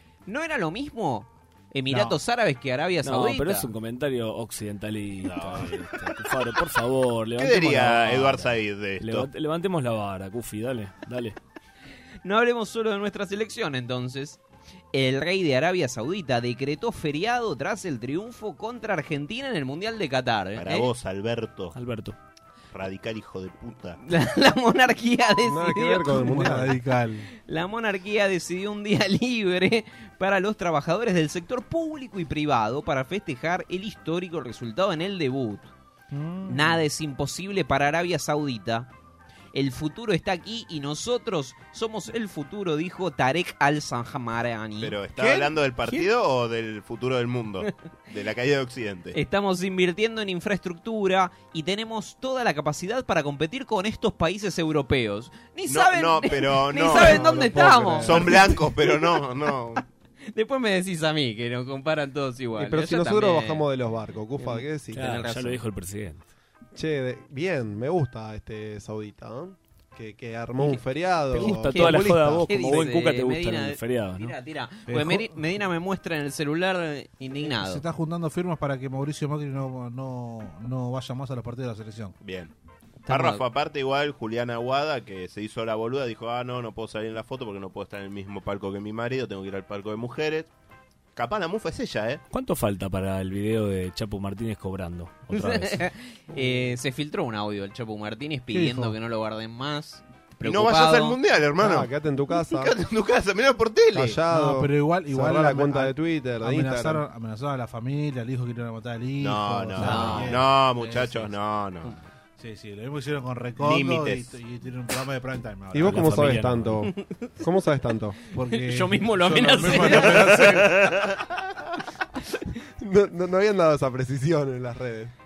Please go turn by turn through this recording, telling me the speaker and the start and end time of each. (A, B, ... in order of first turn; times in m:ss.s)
0:00.3-0:03.7 A
0:01.9-0:02.2 B
0:03.0-0:11.4 C
0:05.2-0:05.7 D
0:07.4-0:09.3 D
0:12.2-0:14.4 A
0:14.9-0:20.9 A
0:20.6-0:21.8 D
0:21.7-0:22.2 C
0:22.7-0:24.0 D
0:24.0-0:26.5 A
0:25.4-0:26.8 E
0:26.1-0:27.3 B
0:27.4-0:35.7 A
0:36.1-0:36.8 B
0:36.5-0:38.9 A
0:39.5-0:45.0 A
0:44.8-0:49.2 D
0:45.2-0:45.6 B
0:49.1-0:59.2 A
0:55.7-0:57.2 D
0:57.0-0:58.4 E
0:57.4-0:57.9 B
0:58.0-0:59.8 D
1:00.3-1:03.6 A
1:02.6-1:05.0 E
1:04.4-1:05.6 A
1:04.9-1:06.2 C
1:06.7-1:12.5 E
1:11.3-1:14.3 C
1:11.4-1:17.8 A
1:14.9-1:15.3 B
1:17.4-1:22.1 B
1:22.2-1:22.5 D
1:23.0-1:23.4 A
1:23.1-1:30.5 D
1:31.2-1:32.2 D
1:32.3-1:35.9 C
1:35.3-1:41.2 A
1:38.5-1:39.0 B
1:40.4-1:41.9 D
1:41.6-1:42.8 E
1:42.5-1:44.2 D
1:43.9-1:47.0 E
1:44.3-1:51.3 B
1:49.2-1:52.0 D
1:49.8-1:50.4 A
1:52.4-1:56.3 B
1:53.6-1:54.3 D
1:55.7-1:58.2 E
1:55.8-1:56.9 C
1:58.3-2:00.9 B
1:58.4-2:00.8 A
1:59.7-2:00.1 E
1:59.9-2:01.1 D
2:02.8-2:05.1 E